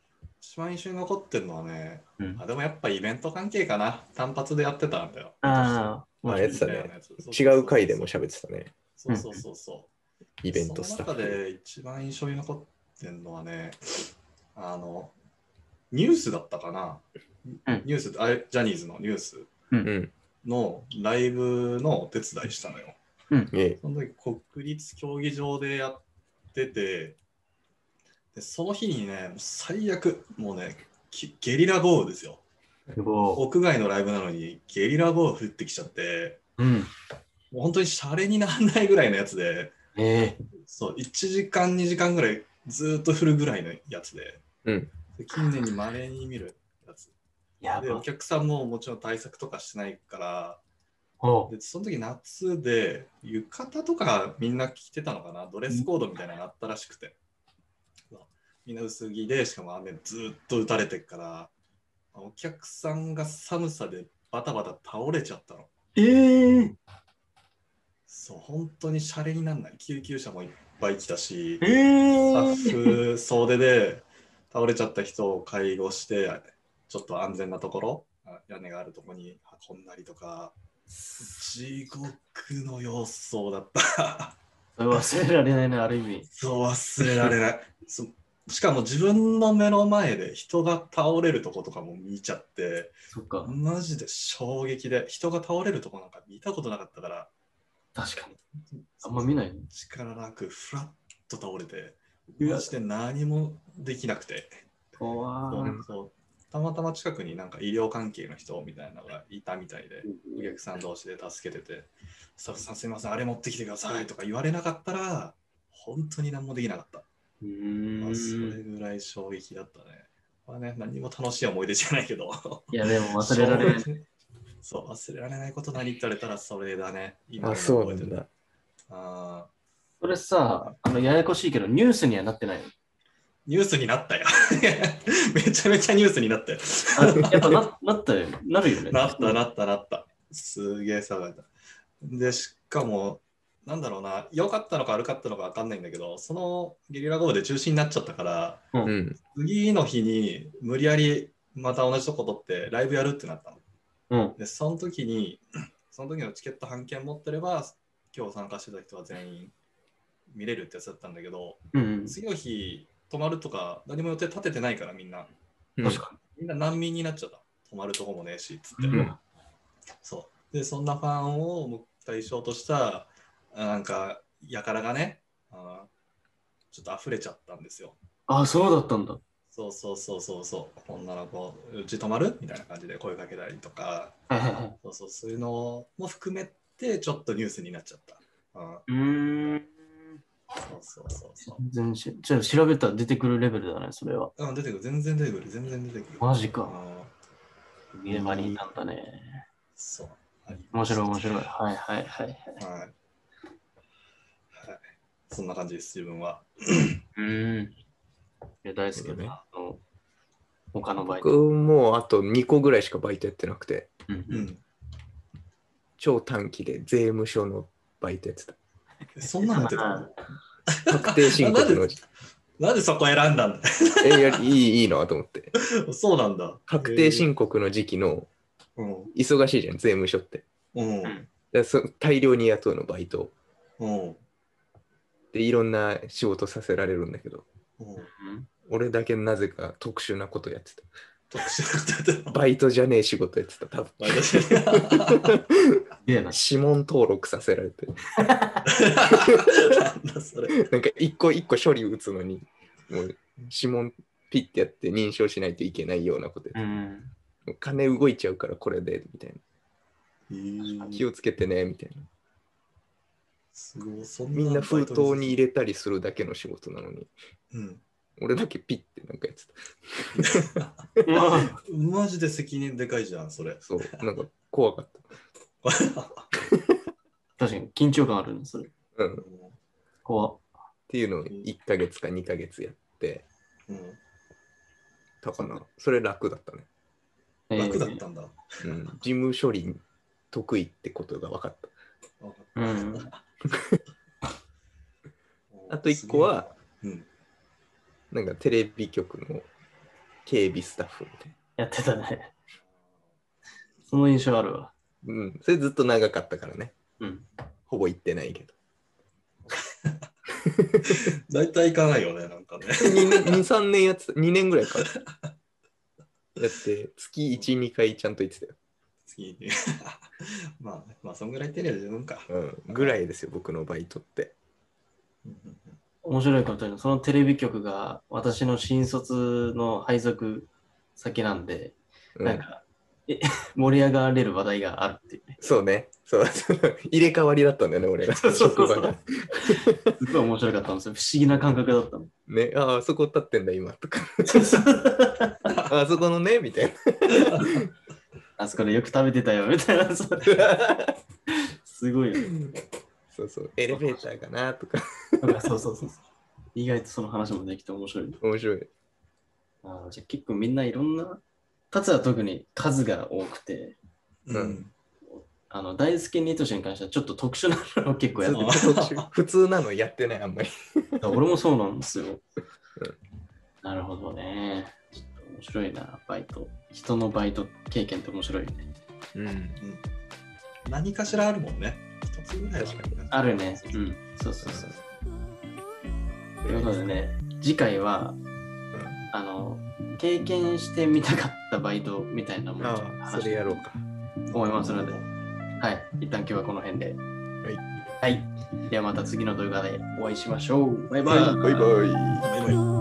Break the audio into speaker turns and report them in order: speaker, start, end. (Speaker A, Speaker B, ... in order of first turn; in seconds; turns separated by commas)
Speaker A: 0.4-8.1, Speaker B: 5.4-6.1, Speaker C: 6.2-8.7, Speaker A: 9.0-9.9, Speaker B: 9.1-9.4, Speaker C: 10.4-11.4, Speaker A: 10.5-14.0, Speaker A: 14.5-15.1, Speaker A: 15.9-19.5, Speaker C: 19.8-20.1, Speaker A: 20.4-23.0, Speaker C: 23.5-23.8, Speaker A: 23.8-26.0, Speaker A: 26.5-27.2, Speaker A: 28.3-32.4, Speaker B: 32.9-33.4, Speaker A: 33.4-36.4, Speaker B: 36.6-36.9, Speaker A: 37.5-39.7, Speaker B: 39.9-40.4, Speaker A: 40.7-44.4, Speaker C: 44.6-44.9, Speaker A: 45.2-47.1, Speaker B: 47.6-48.0, Speaker A: 47.8-50.6, Speaker B: 51.2-51.5, Speaker A: 51.5-57.2, Speaker A: 58.1-61.5, Speaker A: 62.1-65.7, Speaker B: 66.0-66.8, Speaker A: 68.1-71.7, Speaker B: 71.6-73.0, Speaker A: 72.3-80.5, Speaker A: 81.2-84.3, Speaker B: 84.8-86.3, Speaker A: 86.3-92.9, Speaker B: 93.1-93.5, Speaker A: 93.5-97.3, Speaker B: 97.9-98.4, Speaker A: 98.7-104.5, Speaker B: 99.0-99.7, Speaker B: 102.4-102.7, Speaker B: 105.0-105.8, Speaker A: 105.5-117.0, Speaker B: 110.0-110.5, Speaker B: 117.4-118.6, Speaker A: 118.0-124.0, Speaker B: 122.7-123.9, Speaker A: 124.6-128.2, Speaker C: 127.4-128.3, Speaker A: 128.9-129.5, Speaker B: 130.0-132.7, Speaker A: 133.4-137.3, Speaker B: 136.9-139.4, Speaker A: 138.9-141.5, Speaker A: 142.0-148.7, Speaker C: 148.8-149.2, Speaker A: 149.3-153.6, Speaker B: 154.1-154.3, Speaker A: 154.4-159.5, Speaker A: 160.3-165.3, Speaker B: 161.7-162.2, Speaker C: 165.8-166.0, Speaker B: 165.8-166.2, Speaker A: 166.3-169.0, Speaker B: 168.8-169.2, Speaker A: 170.0-175.9, Speaker A: 176.7-177.9, Speaker B: 178.3-179.2, Speaker A: 179.5-184.1, Speaker B: 184.3-184.7, Speaker A: 184.8-188.9, Speaker B: 188.9-189.8, Speaker A: 190.6-191.6, Speaker B: 191.4-194.3, Speaker A: 194.4-197.1, Speaker B: 196.2-196.8, Speaker B: 197.9-199.4, Speaker C: 198.1-198.6, Speaker A: 199.8-201.4, Speaker B: 200.7-202.6, Speaker A: 202.6-202.9, Speaker A: 204.5-207.0, Speaker B: 207.2-207.8, Speaker B: 208.6-209.8, Speaker C: 208.9-209.4, Speaker B: 210.7-211.4, Speaker C: 211.1-213.9, Speaker B: 214.1-214.5, Speaker A: 214.3-214.6, Speaker C: 216.0-218.6, Speaker A: 219.2-220.1, Speaker B: 219.4-220.2, Speaker A: 220.7-222.0, Speaker C: 220.9-222.0, Speaker A: 222.6-224.4, Speaker C: 224.0-225.5, Speaker A: 225.6-227.3, Speaker C: 226.7-228.3, Speaker A: 228.8-229.1, Speaker C: 229.1-230.4, Speaker A: 230.7-231.2, Speaker C: 231.5-233.3, Speaker A: 233.8-234.2, Speaker C: 235.3-237.4, Speaker A: 237.8-238.1, Speaker B: 238.0-238.5, Speaker C: 238.7-240.9, Speaker A: 241.3-242.4, Speaker C: 242.3-244.8, Speaker A: 244.0-245.4, Speaker B: 246.0-246.4, Speaker C: 246.3-248.2, Speaker B: 248.2-248.6, Speaker A: 248.8-250.6, Speaker C: 250.6-256.6, Speaker B: 256.5-257.1, Speaker C: 257.4-259.4, Speaker A: 260.3-261.0, Speaker C: 260.9-262.1, Speaker A: 263.5-265.4, Speaker C: 264.3-267.1, Speaker A: 267.5-267.8, Speaker C: 268.2-270.4, Speaker A: 270.1-270.7, Speaker B: 271.0-271.6, Speaker A: 271.6-273.9, Speaker C: 273.6-275.0, Speaker A: 275.6-276.3, Speaker B: 277.4-278.7, Speaker C: 278.9-279.2, Speaker A: 279.2-279.6, Speaker B: 280.0-280.4, Speaker C: 280.9-283.2, Speaker A: 283.7-284.0, Speaker C: 285.2-286.7, Speaker B: 287.5-288.0, Speaker A: 287.6-288.9, Speaker C: 288.6-289.8, Speaker C: 290.3-291.7, Speaker A: 292.2-293.2, Speaker B: 292.6-293.1, Speaker A: 295.5-297.1, Speaker C: 295.7-296.5, Speaker C: 298.1-299.5, Speaker C: 300.2-301.3, Speaker B: 301.6-302.3, Speaker A: 302.6-302.9, Speaker B: 303.9-304.7, Speaker C: 305.0-306.7, Speaker B: 307.0-307.2, Speaker C: 307.7-308.5, Speaker A: 309.5-309.9, Speaker A: 310.9-313.4, Speaker C: 312.8-314.9, Speaker C: 316.4-318.6, Speaker A: 319.1-323.0, Speaker C: 322.3-324.3, Speaker A: 325.2-325.8, Speaker B: 326.0-335.4, Speaker C: 332.1-332.4, Speaker C: 335.4-339.9, Speaker B: 338.1-342.1, Speaker C: 342.3-344.6, Speaker B: 344.3-345.5, Speaker C: 345.6-347.6, Speaker A: 347.1-347.6, Speaker B: 348.4-350.6, Speaker C: 350.3-350.9, Speaker B: 351.6-352.4, Speaker C: 353.1-354.8, Speaker B: 353.7-354.1, Speaker B: 355.2-356.0, Speaker B: 356.5-358.2, Speaker C: 358.2-358.7, Speaker B: 359.6-363.8, Speaker A: 364.2-364.7, Speaker C: 364.3-364.6, Speaker B: 365.1-368.6, Speaker C: 368.2-371.0, Speaker A: 368.3-369.0, Speaker B: 371.0-372.2, Speaker B: 373.6-378.7, Speaker C: 379.1-379.6, Speaker A: 379.6-379.8, Speaker A: 380.6-383.9, Speaker C: 382.4-383.0, Speaker B: 383.1-384.7, Speaker C: 386.4-386.8, Speaker B: 386.4-388.2, Speaker C: 388.7-389.0, Speaker B: 389.1-393.6, Speaker C: 392.6-393.8, Speaker B: 394.3-394.9, Speaker A: 394.3-395.1, Speaker B: 395.6-397.0, Speaker B: 398.0-401.8, Speaker C: 401.0-402.3, Speaker A: 402.2-402.6